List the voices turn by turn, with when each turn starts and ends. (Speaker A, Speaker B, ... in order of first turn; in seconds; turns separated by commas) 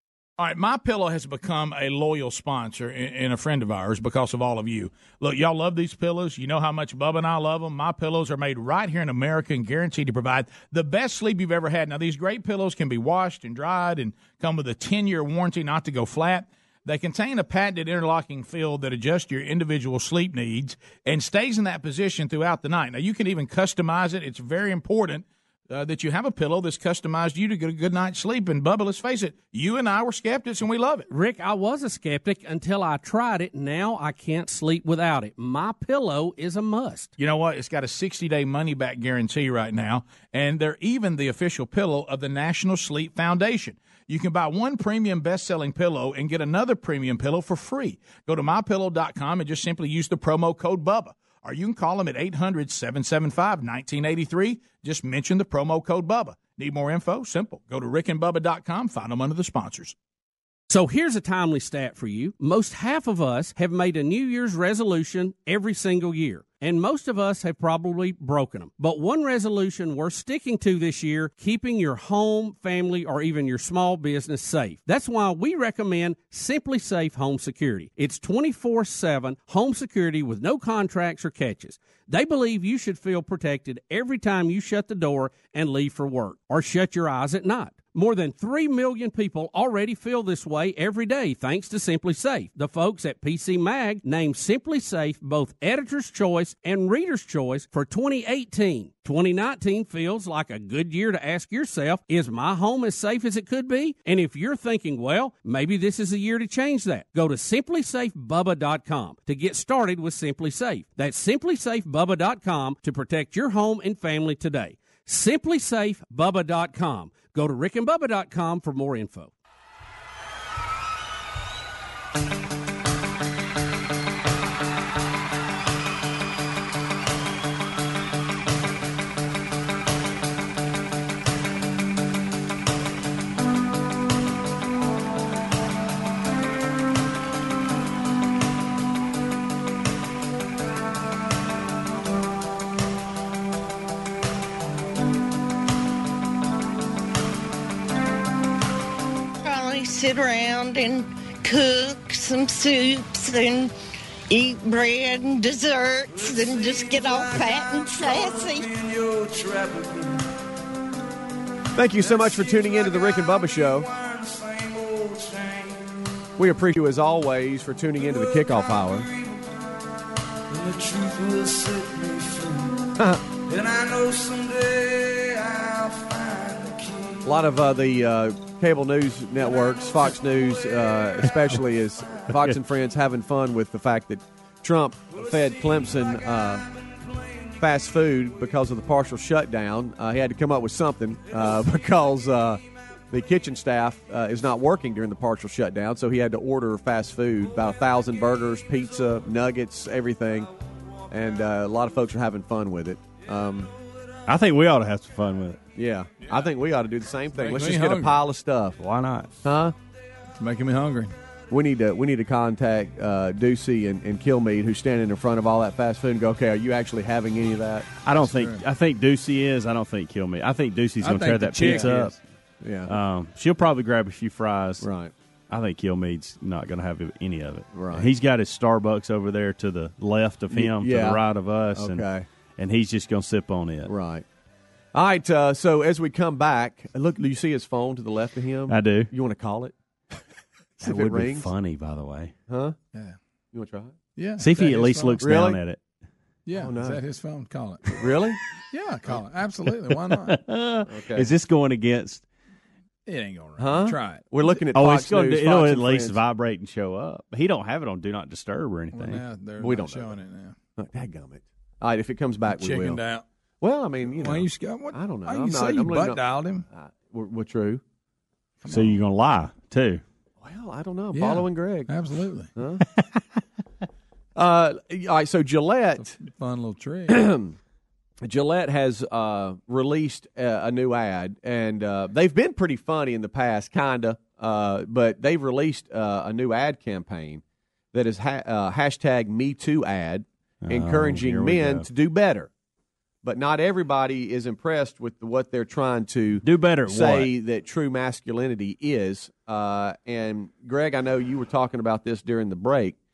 Speaker A: 0.4-31.1, Speaker B: 31.1-37.1, Speaker A: 37.2-60.0, Speaker B: 60.7-119.3, Speaker C: 149.4-153.7, Speaker C: 154.3-158.7, Speaker D: 156.1-160.2, Speaker E: 161.8-163.9, Speaker D: 162.0-165.9, Speaker E: 166.4-169.1, Speaker D: 168.0-169.4, Speaker D: 170.5-172.8, Speaker D: 173.5-177.3, Speaker E: 177.2-186.7, Speaker F: 182.3-182.6, Speaker E: 187.6-200.5, Speaker E: 201.1-203.7, Speaker F: 204.3-205.6, Speaker E: 205.8-208.8, Speaker G: 207.3-208.2, Speaker F: 208.8-209.3, Speaker E: 209.4-209.7, Speaker G: 210.4-211.1, Speaker E: 211.5-217.9, Speaker F: 218.0-222.2, Speaker G: 218.2-218.6, Speaker G: 221.0-222.2, Speaker E: 221.6-221.9, Speaker E: 222.6-222.9, Speaker F: 222.9-224.9, Speaker E: 224.8-225.1, Speaker F: 225.5-233.9, Speaker E: 227.7-228.1, Speaker E: 230.5-231.2, Speaker E: 231.8-232.3, Speaker E: 233.9-234.2, Speaker E: 234.9-239.7, Speaker F: 238.7-239.1, Speaker F: 240.8-242.3, Speaker E: 240.8-241.5, Speaker E: 242.5-242.8, Speaker E: 243.5-244.0, Speaker G: 244.2-245.4, Speaker F: 244.4-245.8, Speaker E: 245.2-245.6, Speaker G: 246.5-247.9, Speaker E: 246.6-247.0, Speaker E: 248.0-248.4, Speaker G: 248.7-250.4, Speaker F: 250.1-252.2, Speaker E: 250.9-251.3, Speaker G: 253.1-254.3, Speaker E: 253.6-256.2, Speaker F: 254.7-259.2, Speaker G: 258.9-260.6, Speaker E: 259.6-260.1, Speaker E: 260.8-263.0, Speaker G: 262.5-263.2, Speaker E: 263.6-267.8, Speaker G: 264.1-266.6, Speaker G: 268.6-269.0, Speaker F: 268.7-270.0, Speaker E: 270.4-272.0, Speaker G: 271.1-272.5, Speaker E: 272.6-272.9, Speaker F: 273.0-273.2, Speaker E: 274.4-276.2, Speaker G: 276.0-277.2, Speaker E: 277.1-277.6, Speaker E: 278.2-292.5, Speaker F: 290.6-291.9, Speaker E: 293.2-303.0, Speaker F: 296.4-297.3